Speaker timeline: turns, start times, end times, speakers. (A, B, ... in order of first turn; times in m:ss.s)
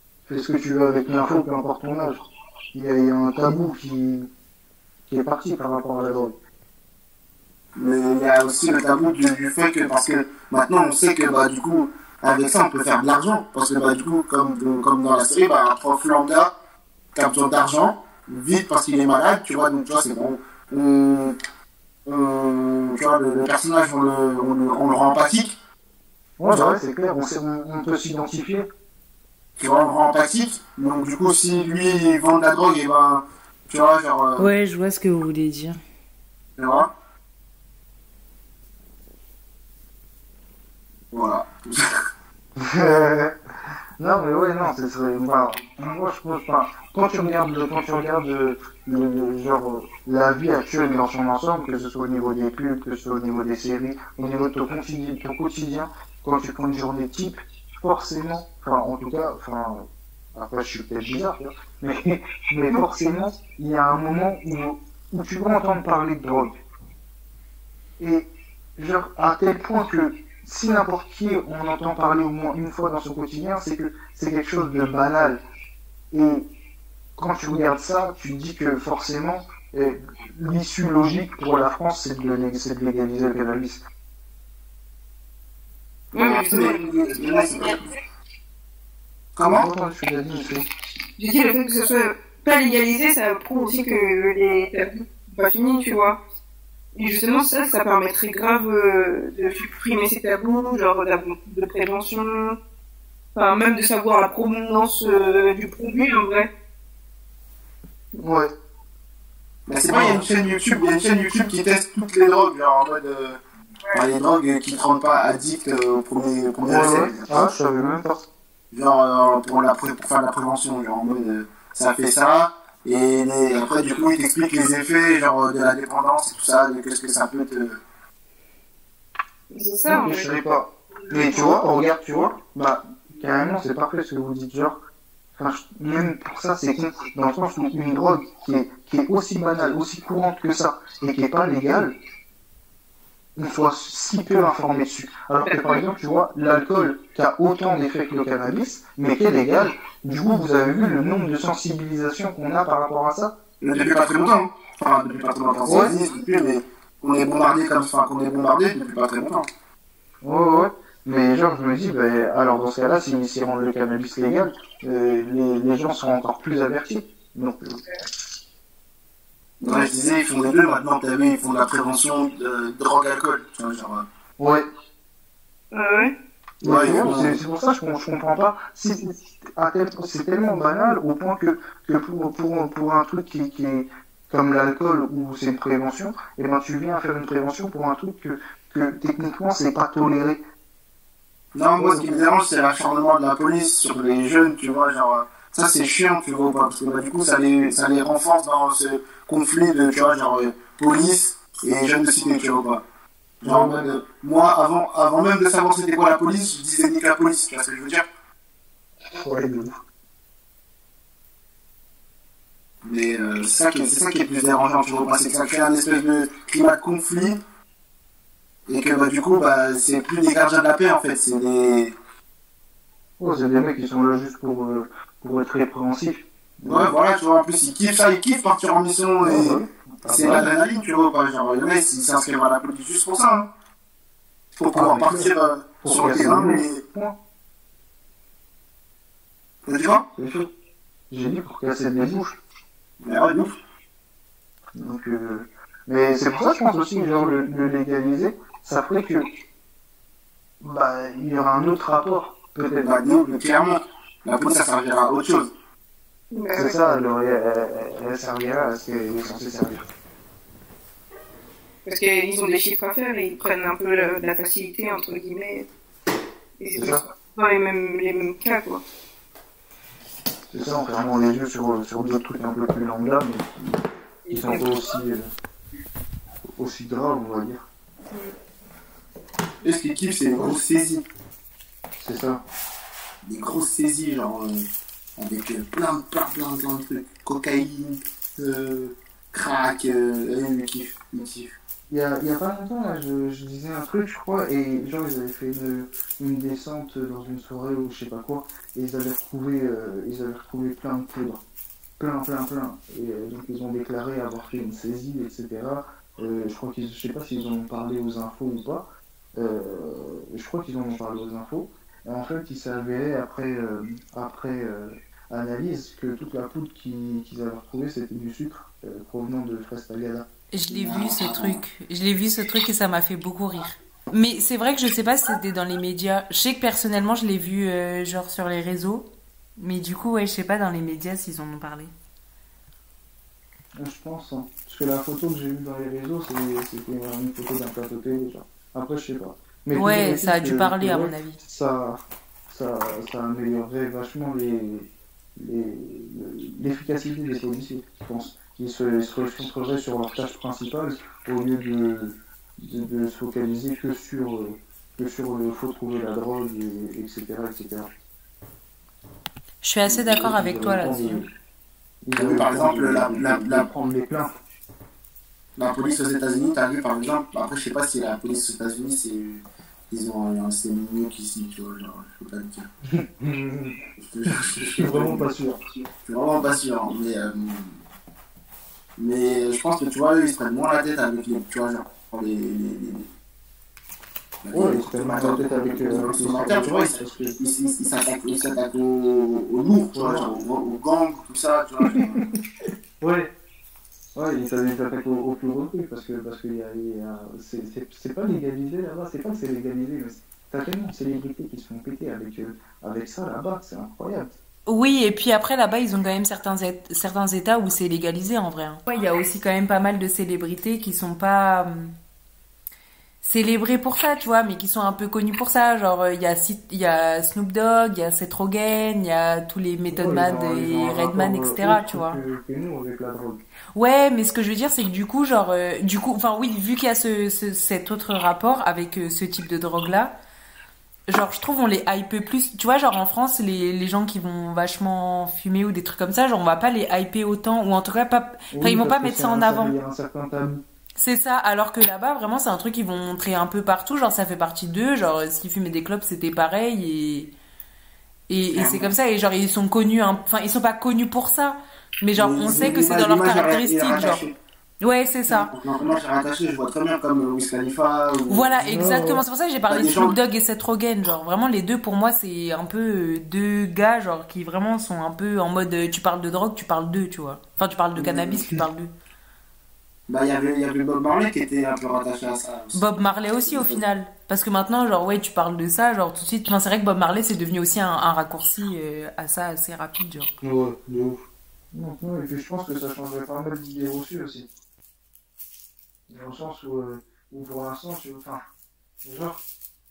0:00.3-0:04.3 A
0:05.1-0:06.4 A
0:07.8-0:16.5 B
0:17.2-0:21.4 B
0:22.1-0:25.6 B
0:26.4-0:28.7 A
0:26.5-0:26.8 B
0:29.6-0:34.5 B
0:34.4-0:35.8 C
0:36.6-0:36.9 B
0:41.1-0:41.8 B
0:42.6-0:43.4 A
0:44.0-1:06.6 A
1:08.0-1:15.4 A
1:16.1-1:16.5 A
1:17.2-1:23.8 A
1:26.1-1:27.8 B
1:26.1-1:27.8 D
1:29.4-1:29.7 B
1:29.5-1:30.7 A
1:31.2-1:36.2 D
1:37.0-1:42.6 D
1:43.4-1:46.5 D
1:48.2-1:48.5 A
1:49.7-1:53.4 B
1:49.9-1:50.2 A
1:53.9-1:57.5 B
1:56.6-1:58.2 A
1:58.7-2:07.8 B
2:09.5-2:10.4 D
2:09.9-2:14.8 A
2:11.1-2:11.5 D
2:15.4-2:22.0 A
2:23.4-2:33.3 A
2:25.4-2:25.8 D
2:33.6-2:39.5 B
2:35.7-2:36.0 A
2:40.2-2:47.8 A
2:49.6-2:54.1 B
2:49.7-2:50.1 A
2:54.4-2:54.7 A
2:55.7-2:56.1 D
2:56.6-2:57.4 B
2:56.6-3:10.4 A
3:11.5-3:22.8 B
3:11.8-3:12.1 A
3:23.4-3:28.1 B
3:23.4-3:23.9 A
3:29.1-3:29.8 A
3:32.8-3:37.4 B
3:38.7-3:42.0 B
3:43.2-3:47.0 A
3:46.7-3:53.5 B
3:49.2-3:50.5 A
3:54.6-3:56.8 B
3:54.7-3:57.2 A
3:59.6-4:00.1 B
4:00.2-4:00.5 A
4:01.1-4:02.4 A
4:03.0-4:03.6 B
4:04.7-4:09.3 A
4:10.6-4:13.0 A
4:12.8-4:15.5 B
4:16.3-4:16.8 D
4:16.5-4:19.9 A
4:21.8-4:25.7 D
4:26.6-4:28.8 D
4:26.8-4:27.0 A
4:30.5-4:33.8 A
4:34.2-4:34.7 D
4:34.3-4:35.3 A
4:36.5-4:37.6 A
4:39.6-4:41.1 B
4:42.0-4:42.4 A
4:43.2-4:44.6 B
4:45.2-4:51.6 B
4:51.9-5:01.4 A
5:02.0-5:20.3 A
5:20.5-5:31.9 C
5:20.7-5:21.6 B
5:33.7-5:57.9 A
5:39.7-5:41.4 C
5:59.6-6:01.2 C
5:59.8-6:00.3 B
6:00.2-6:01.3 A
6:02.0-6:04.3 A
6:02.2-6:03.7 B
6:05.6-6:12.7 B
6:12.8-6:13.8 A
6:14.0-6:15.3 B
6:14.3-6:15.6 A
6:16.0-6:17.8 B
6:19.0-6:23.1 B
6:24.4-6:32.2 B
6:24.5-6:27.4 A
6:29.9-6:30.3 A
6:31.8-6:32.2 A
6:33.0-6:33.3 A
6:34.2-6:44.3 A
6:44.7-6:51.9 C
6:53.2-7:02.2 C
6:59.9-7:03.4 A
7:03.8-7:10.1 C
7:11.1-7:19.7 C
7:18.5-7:20.6 A
7:21.0-7:27.3 C
7:28.3-7:34.2 C
7:28.5-7:28.9 B
7:32.2-7:34.4 B
7:34.8-7:35.5 C
7:35.3-7:38.9 B
7:38.3-7:48.9 C
7:38.6-7:39.2 A
7:39.7-7:40.2 B
7:48.0-7:48.6 A
7:50.1-7:52.8 B
7:52.7-8:00.3 C
7:53.4-7:53.8 B
8:00.4-8:04.5 A
8:06.1-8:08.4 A
8:09.0-8:09.4 A